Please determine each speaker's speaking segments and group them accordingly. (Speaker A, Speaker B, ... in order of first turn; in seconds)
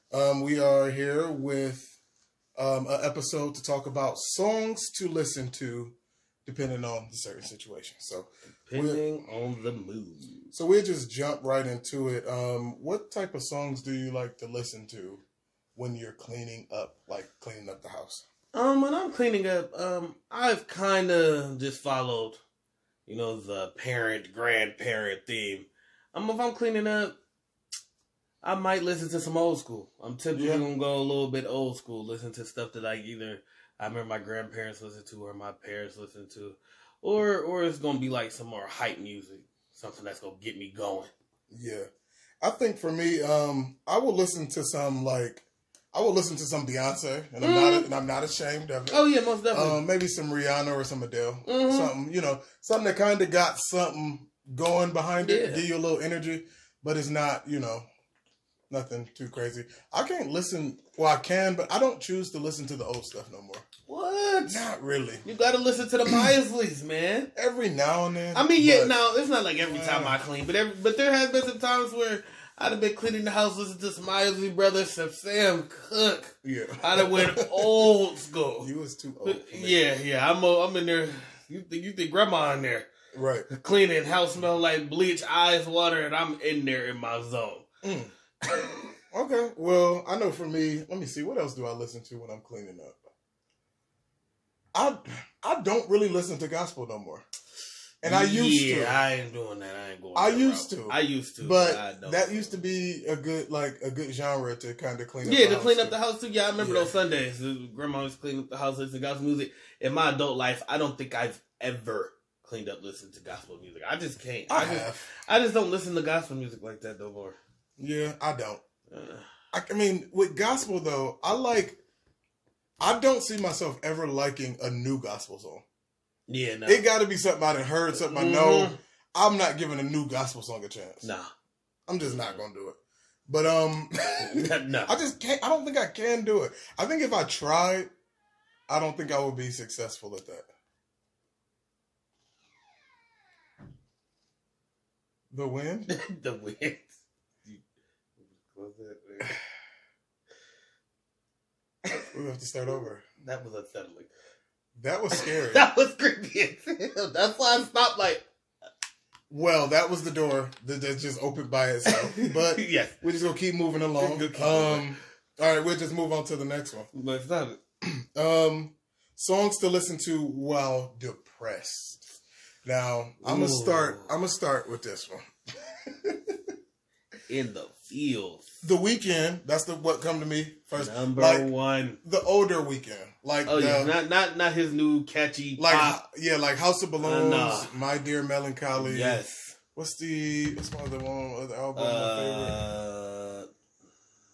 Speaker A: 0.1-1.9, 2.6-6.0, 6.5-9.2, 10.5-15.2, 15.8-18.2, 30.3-30.6, 41.5-41.9, 42.4-57.9, 58.7-63.6, 64.5-65.2, 67.4-68.9, 69.6-70.2, 76.4-77.9, 78.6-79.8, 83.1-83.5, 87.8-88.1, 89.1-93.0, 94.7-97.2, 98.0-99.0, 100.2-106.0, 106.6-106.9, 114.5-115.1, 117.8-118.6, 119.5-121.8, 122.8-125.6, 126.7-131.1, 131.9-132.8, 133.3-137.9, 138.7-140.5, 145.3-145.9, 152.1-153.0, 154.8-155.7, 159.3-166.9, 168.2-172.0, 172.7-175.2, 175.9-176.2, 178.6-181.5, 182.0-183.9, 185.6-189.2, 189.8-192.6
Speaker B: 8.7-10.5, 18.5-22.4, 23.1-27.2, 28.4-41.1, 47.4-47.9, 48.9-49.8, 51.5-51.9, 55.2-55.6, 63.9-64.7, 65.2-67.3, 68.3-78.7, 79.2-82.9, 83.5-87.7, 88.5-88.9, 98.0-102.5, 105.2-117.4, 118.9-119.3, 126.3-126.9, 127.9-128.8, 131.0-131.3, 132.0-132.4, 134.2-134.9, 145.9-146.9, 148.3-149.4, 153.2-154.1, 155.1-158.2, 161.9-163.0, 164.0-165.0, 166.9-167.6, 173.2-174.1, 177.3-178.5, 180.8-182.0, 183.4-186.0, 187.0-187.7, 188.7-189.6, 191.8-193.5